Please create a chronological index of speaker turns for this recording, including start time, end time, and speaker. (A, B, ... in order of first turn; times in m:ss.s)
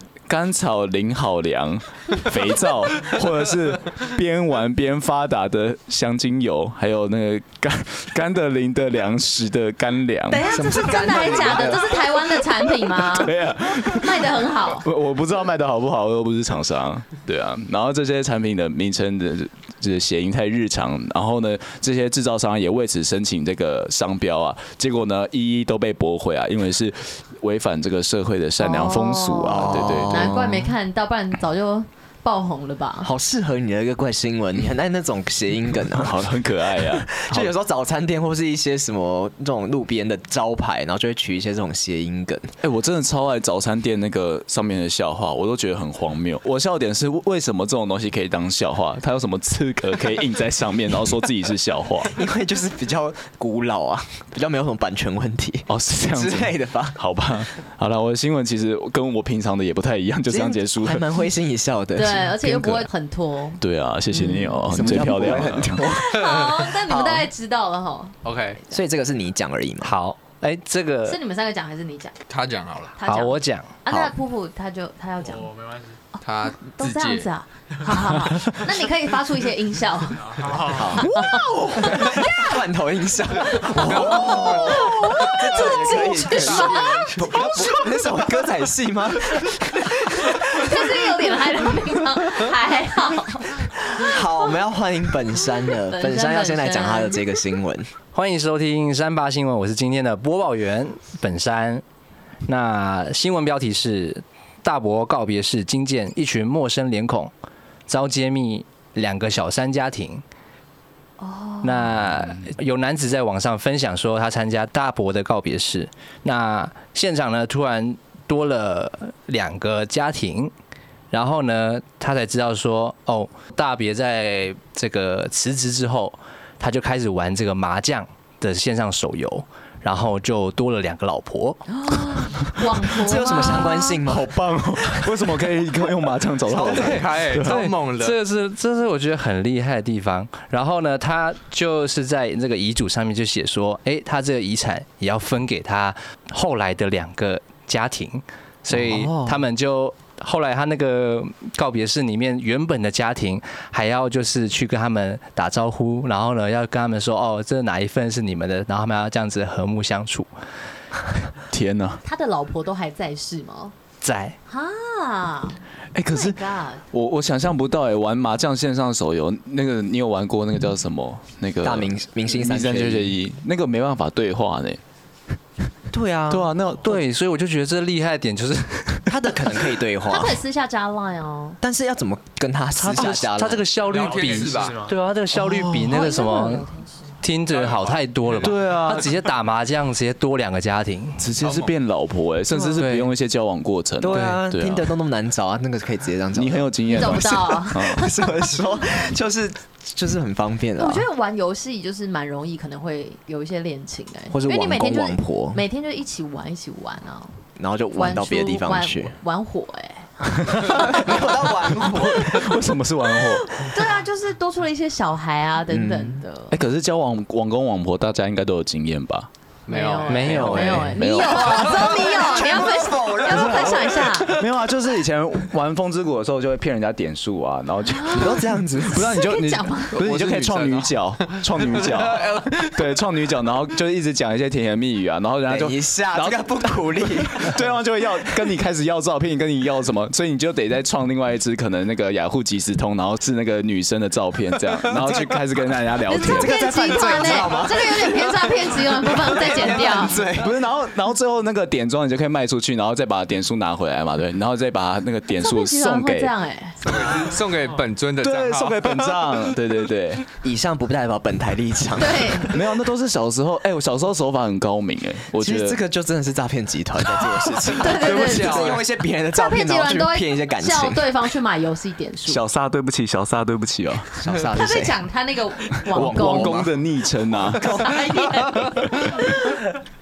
0:00.3-0:10.5 A
0:10.3-0:13.3 B
0:10.4-0:12.1 C
0:13.0-0:30.5 A
0:13.8-0:14.8 B
0:28.6-0:33.1 B
0:29.5-0:30.5 C
0:33.0-0:42.5 C
0:36.0-0:37.5 A
0:42.6-0:52.1 A
0:52.1-0:57.0 C
0:55.7-1:01.1 A
1:00.3-1:02.8 C
1:01.9-1:03.6 B
1:03.6-1:05.9 A
1:04.1-1:04.7 B
1:04.6-1:07.3 C
1:05.8-1:08.2 B
1:08.2-1:08.6 D
1:08.7-1:10.0 C
1:09.8-1:11.2 E
1:11.0-1:12.1 B
1:12.3-1:12.9 D
1:13.0-1:15.5 B
1:13.0-1:13.7 E
1:15.2-1:16.0 F
1:16.1-1:20.4 B
1:16.2-1:17.3 D
1:20.2-1:21.1 F
1:20.7-1:31.3 C
1:21.0-1:22.5 B
1:23.4-1:27.7 B
1:23.8-1:24.9 D
1:25.6-1:27.2 D
1:30.1-1:34.5 B
1:33.9-1:37.9 C
1:35.4-1:37.2 B
1:38.1-1:41.8 E
1:42.4-1:47.3 E
1:47.9-1:50.2 E
1:51.2-1:51.9 B
1:51.6-2:00.5 E
1:52.1-1:52.5 A
2:01.1-2:11.7 E
2:11.7-2:14.0 B
2:12.8-2:15.1 C
2:14.1-2:17.5 A
2:16.5-2:18.2 D
2:17.4-2:40.3 E
2:28.7-2:29.4 C
2:41.5-2:42.0 A
2:42.0-2:43.7 B
2:44.0-2:44.4 E
2:44.5-2:46.8 B
2:45.9-2:54.8 A
2:51.6-2:53.1 C
2:55.9-2:56.5 C
2:56.3-2:57.0 A
2:56.8-2:59.1 E
2:59.1-3:00.4 C
3:00.1-3:01.6 B
3:01.6-3:03.6 C
3:02.8-3:06.7 E
3:03.9-3:05.0 F
3:03.9-3:04.8 D
3:05.4-3:06.0 A
3:05.8-3:07.1 B
3:07.2-3:11.3 E
3:07.6-3:07.9 D
3:07.6-3:07.9 F
3:08.4-3:09.1 A
3:11.2-3:14.9 A
3:11.4-3:11.7 D
3:12.8-3:13.1 E
3:14.0-3:21.0 C
3:14.1-3:14.4 E
3:16.3-3:18.1 A
3:16.9-3:18.5 B
3:20.8-3:27.4 B
3:24.3-3:25.6 C
3:27.6-3:29.1 C
3:27.9-3:32.4 B
3:30.5-3:30.8 A
3:30.7-3:32.7 C
3:31.9-3:33.7 A
3:33.2-3:36.6 B
3:35.7-3:36.2 C
3:36.5-3:39.3 A
3:39.7-3:40.8 D
3:39.7-3:44.3 B
3:40.0-3:41.0 E
3:40.9-3:41.9 A
3:41.5-3:44.4 C
3:43.4-3:56.4 A
3:47.9-3:50.0 B
3:48.1-3:49.2 C
3:49.9-3:52.8 D
3:55.5-3:57.6 C
3:57.3-4:06.6 A
4:04.9-4:05.3 C
4:06.1-4:10.2 B
4:06.1-4:10.6 C
4:10.4-4:16.3 A
4:15.4-4:16.8 B
4:16.8-4:18.9 D
4:18.2-4:20.3 A
4:20.4-4:22.6 C
4:22.0-4:22.5 B
4:22.5-4:25.8 A
4:25.4-4:31.0 C
4:27.8-4:28.8 B
4:27.9-4:28.8 D
4:29.3-4:32.4 B
4:32.3-4:34.2 A
4:34.2-4:35.0 C
4:34.5-4:36.6 B
4:35.9-4:37.9 A
4:35.9-4:36.7 C
4:37.5-4:38.6 C
4:37.7-4:39.7 B